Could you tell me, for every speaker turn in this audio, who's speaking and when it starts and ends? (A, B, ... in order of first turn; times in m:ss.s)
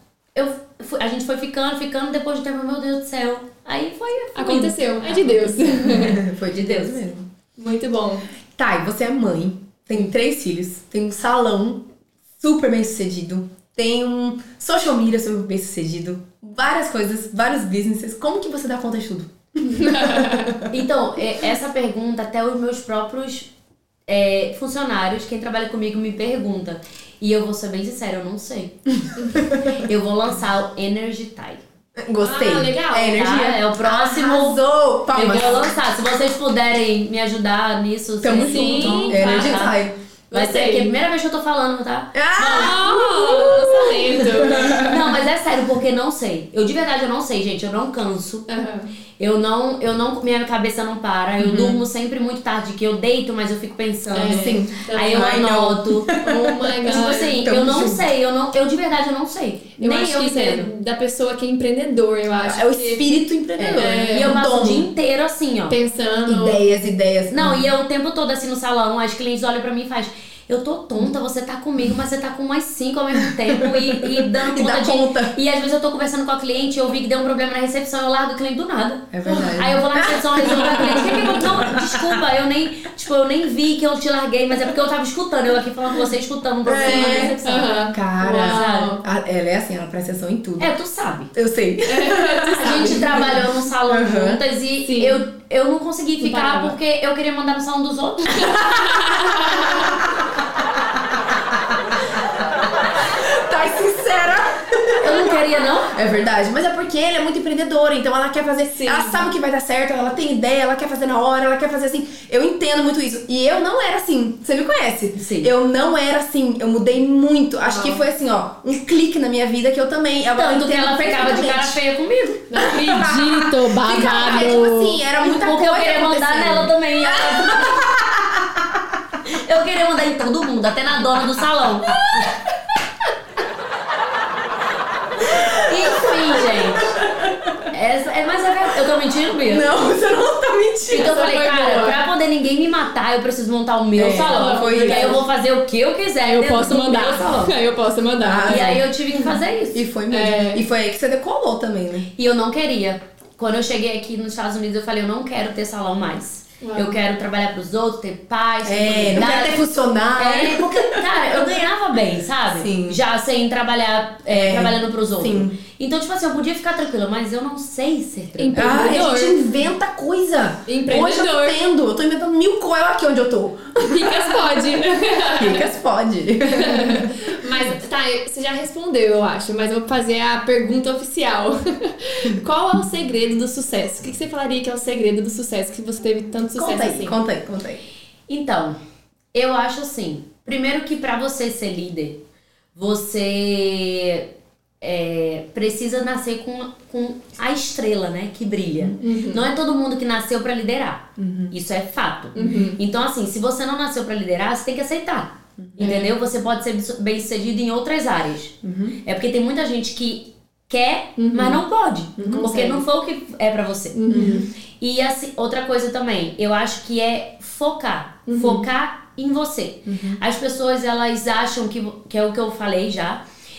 0:00.3-0:05.8 A
0:04.4-0:06.2 B
0:05.8-0:07.3 C
0:07.6-0:08.2 B
0:08.6-0:11.8 C
0:12.4-0:20.7 C
0:19.7-0:20.6 B
0:20.7-0:23.5 A
0:24.1-0:28.8 A
0:29.4-0:31.6 A
0:32.0-0:35.7 C
0:32.2-0:33.3 B
0:33.0-0:39.8 A
0:38.2-0:39.9 C
0:38.4-0:39.7 B
0:40.3-0:40.9 B
0:40.3-0:43.8 A
0:42.1-0:45.0 C
0:42.4-0:44.8 B
0:44.4-0:48.5 A
0:48.5-0:48.9 B
0:49.2-0:56.2 A
0:51.4-0:51.8 C
0:54.1-0:58.1 C
0:54.1-0:55.4 B
0:56.2-0:57.4 B
0:56.8-1:00.7 A
0:59.8-1:03.1 B
1:02.4-1:04.9 C
1:03.6-1:05.8 A
1:03.7-1:04.4 B
1:05.7-1:06.6 B
1:06.2-1:07.7 C
1:07.3-1:27.8 A
1:13.7-1:15.4 C
1:19.1-1:22.2 C
1:26.6-1:27.4 C
1:26.8-1:29.0 B
1:27.9-1:30.7 C
1:28.4-1:29.0 A
1:30.6-1:31.3 A
1:31.3-1:34.4 C
1:31.8-1:33.4 B
1:32.5-1:38.6 A
1:34.8-1:35.2 B
1:36.2-1:36.8 B
1:38.6-1:39.8 B
1:38.6-1:38.8 C
1:39.4-1:40.0 C
1:43.0-1:45.4 C
1:45.0-1:45.9 A
1:45.9-2:01.8 C
1:48.8-1:49.3 B
1:55.2-1:55.5 A
1:57.6-1:58.0 B
2:00.3-2:02.6 A
2:02.5-2:05.0 B
2:02.6-2:08.8 C
2:05.2-2:07.9 A
2:09.2-2:12.0 A
2:15.2-2:17.6 C
2:15.6-2:16.9 A
2:17.7-2:19.7 A
2:19.4-2:21.1 C
2:20.9-2:27.5 A
2:20.9-2:22.0 B
2:23.9-2:25.2 C
2:24.3-2:25.2 B
2:26.2-2:28.8 B
2:28.2-2:28.8 C
2:28.4-2:29.8 A
2:29.7-2:32.1 C
2:30.1-2:30.6 B
2:32.2-2:48.7 A
2:36.6-2:37.0 B
2:38.6-2:41.6 C
2:42.5-2:43.0 C
2:44.3-2:45.6 C
2:48.4-2:49.5 B
2:48.5-2:54.8 C
2:50.7-2:51.6 B
2:53.8-2:55.7 B
2:55.3-2:57.2 C
2:56.4-3:07.2 B
3:06.6-3:07.8 C
3:08.3-3:08.8 A
3:09.3-3:12.2 A
3:12.7-3:34.2 A
3:19.0-3:19.4 B
3:21.2-3:21.5 C
3:22.3-3:22.8 B
3:25.6-3:25.8 C
3:25.8-3:26.1 B
3:28.6-3:29.0 C
3:31.2-3:31.6 B
3:32.2-3:32.5 C
3:32.2-3:32.8 B
3:33.9-3:34.4 B
3:34.1-3:34.5 C
3:34.8-3:43.2 A
3:38.3-3:38.6 B
3:39.8-3:40.2 C